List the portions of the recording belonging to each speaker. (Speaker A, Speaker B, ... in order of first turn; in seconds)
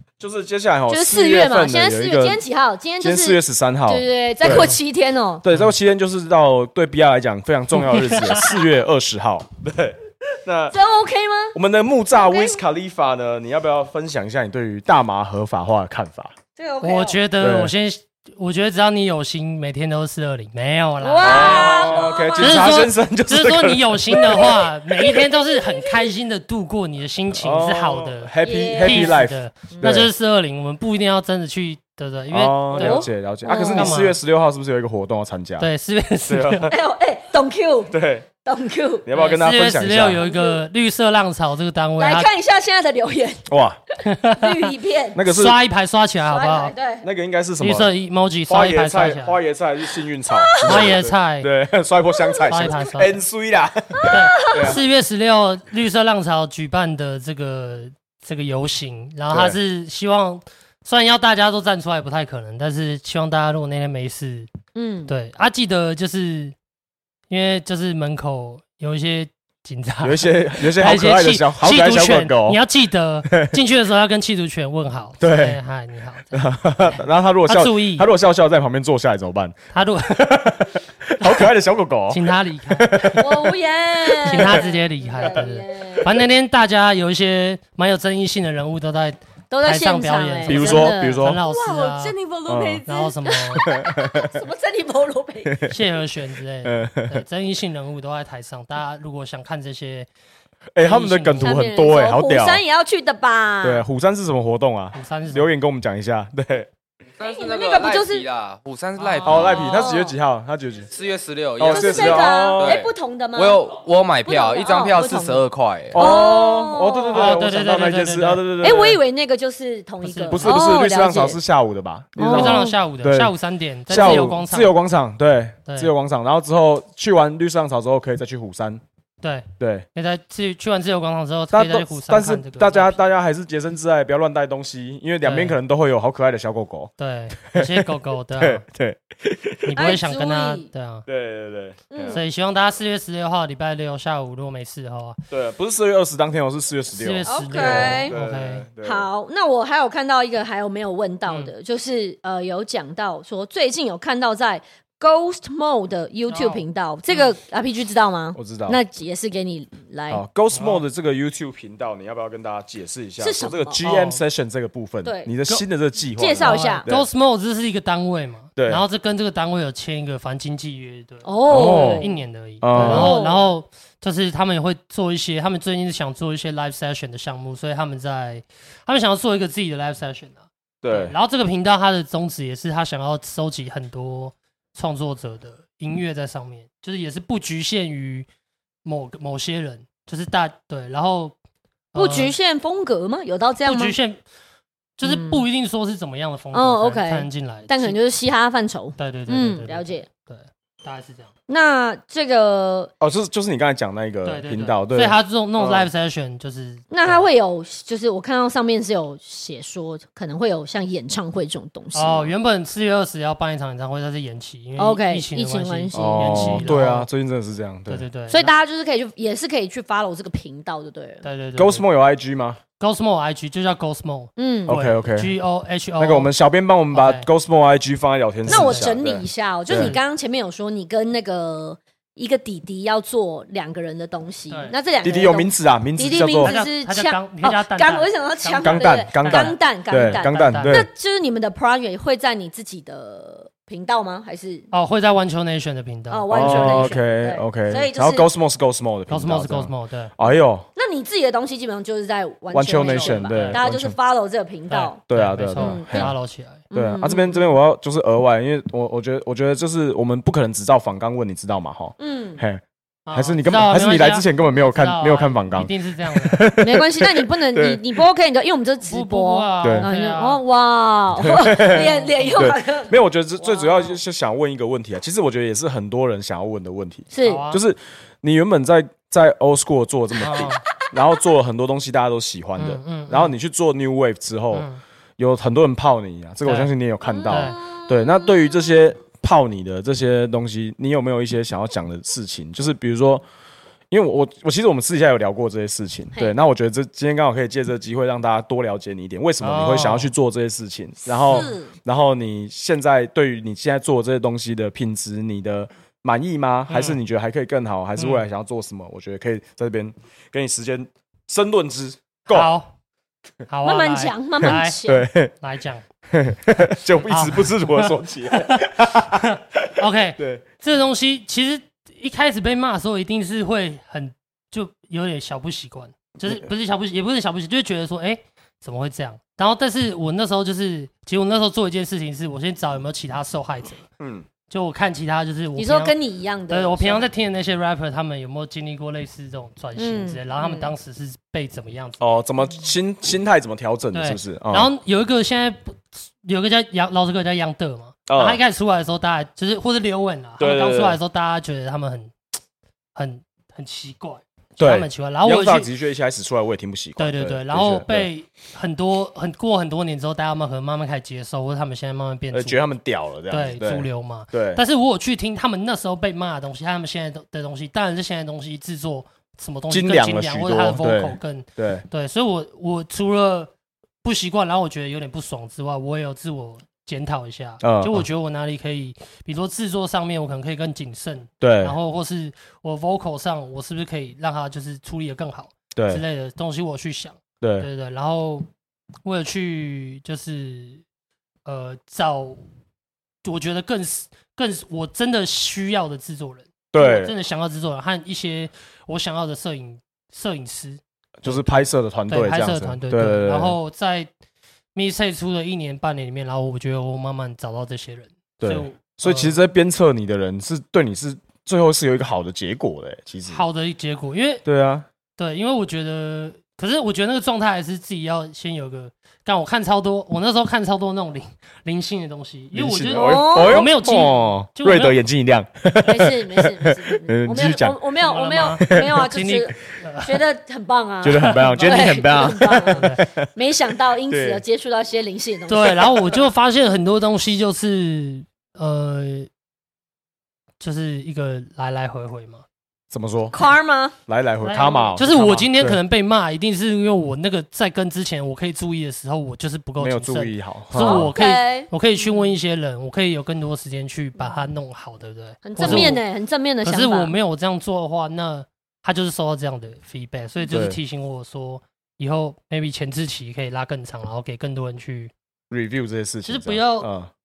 Speaker A: 0.2-2.4, 3.0-4.7, 5.4-10.8, 11.5-16.3, 17.4-17.7, 21.2-24.7, 27.3-30.1, 32.3-35.7, 36.3-36.7, 37.9-38.3, 39.0-40.2, 43.5-43.8, 45.1-45.6, 47.0-47.9, 48.5-54.8, 59.3-59.6, 70.0-72.6, 73.3-73.5, 75.2-75.6, 76.3-79.6, 80.1-83.4, 84.1-84.6, 90.5-91.4, 92.5-92.8, 93.6-94.3, 95.4-95.8, 96.6-97.2, 100.7-102.6, 103.6-106.7, 109.2-110.9, 111.6-112.8, 115.9-119.0, 120.3-123.3, 123.9-128.8, 129.6-129.8, 131.5-136.9, 137.4-139.8, 141.1-142.2, 145.3-149.1, 158.3-158.8, 160.1-167.1, 168.6-168.8, 171.5-172.1, 172.6-173.1, 180.8-181.1, 203.0-205.9, 215.9-218.0, 221.6-222.6, 224.7-225.3, 226.0-229.9, 235.0-236.6, 238.6-240.9, 246.3-250.7, 252.5-253.9, 255.1-256.1, 256.7-267.8, 269.6-269.9, 271.2-284.6, 285.2-293.2, 293.9-312.5, 314.4-315.3, 316.1-320.4, 334.0-334.3, 342.0-344.7, 348.1-348.4, 350.4-351.0, 354.6-358.1, 362.3-364.6, 369.7-371.9, 377.6-378.1, 381.4-381.8, 385.7-386.0, 387.4-387.7, 396.7-397.1, 401.2-403.6, 408.4-413.4, 414.4-414.9, 422.5-427.8, 428.6-429.0, 431.0-433.3, 434.1-434.4, 442.9-443.5, 444.1-445.8, 449.8-451.1, 455.6-455.9, 460.5-460.8, 465.5-467.1
Speaker B: 0.9-5.4, 10.7-11.5, 12.1-12.6, 16.6-17.2, 21.0-22.6, 28.4-29.2, 29.7-30.0, 32.7-34.0, 36.7-39.1, 40.2-40.6, 42.0-43.4, 44.2-45.2, 46.2-47.0, 50.3-51.0, 54.0-54.7, 64.7-65.1, 83.2-86.2, 89.5-95.5, 101.4-103.8, 107.2-108.2, 109.4-110.1, 111.6-113.6, 114.2-115.4, 115.9-117.4, 118.6-121.4, 122.2-122.7, 123.9-124.2, 139.7-140.7, 141.9-142.2, 147.2-148.1, 148.8-160.2, 163.2-163.8, 165.0-165.3, 166.2-166.9, 171.2-172.1, 172.7-173.5, 191.9-193.9, 195.0-195.4, 196.5-200.1, 201.5-202.9, 206.9-212.3, 214.8-216.9, 218.3-221.2, 224.4-224.7, 228.5-244.7, 246.1-248.2, 250.8-255.0, 255.6-256.1, 256.7-257.4, 262.0-262.4, 266.6-274.0, 277.1-277.4, 287.1-288.3, 301.2-301.7, 313.6-315.0, 335.6-337.1, 339.8-340.7, 422.9-423.7, 425.8-435.9, 443.3-443.9, 450.8-452.3, 454.2-454.4, 455.4-457.1
Speaker C: 4.5-4.7, 7.8-8.5, 16.8-34.1, 35.6-36.7, 39.1-42.3, 44.0-44.7, 45.2-46.7, 47.6-49.4, 50.6-51.5, 52.5-53.1, 54.1-64.5, 65.1-66.5, 67.3-78.1, 79.7-81.5, 82.1-83.3, 84.2-92.2, 92.8-93.7, 95.7-100.1, 100.8-101.7, 104.9-105.5, 109.0-109.4, 117.1-118.4, 120.0-120.7, 122.3-124.7, 129.2-133.0, 135.2-135.6, 137.0-138.6, 139.7-141.1, 142.1-145.2, 146.9-148.7, 151.3-151.5, 156.3-157.3, 160.5-160.8, 163.8-164.2, 166.4-188.3, 188.8-191.3, 191.9-192.3, 193.6-194.2, 195.0-198.0, 199.0-201.3, 204.2-207.2, 211.9-217.1, 217.9-218.5, 221.2-221.8, 222.8-226.3, 226.9-227.3, 228.5-228.9, 229.7-230.0, 234.5-234.7, 236.4-240.8, 244.7-247.0, 249.1-250.1, 252.8-253.6, 254.7-256.6, 263.1-266.5, 268.9-270.4, 271.6-272.5, 277.2-277.6, 280.2-280.6, 282.6-283.3, 284.5-284.8, 286.4-286.7, 287.3-287.6, 299.4-300.1, 306.7-307.0, 308.0-308.2, 312.3-312.7, 313.5-314.8, 315.4-315.8, 317.1-333.9, 334.5-335.9, 336.5-342.2, 343.9-352.1, 352.9-355.7, 357.0-362.6, 363.3-373.5, 374.0-388.5, 389.0-390.8, 391.4-392.4, 393.2-401.4, 402.1-404.1, 404.7-409.4, 413.3-414.4, 415.2-425.0, 428.0-430.2, 431.2-432.0, 432.7-433.0, 435.5-439.3, 440.6-442.4, 444.4-456.0, 456.6-465.1, 466.2-466.9
Speaker D: 107.2-109.9, 110.9-116.1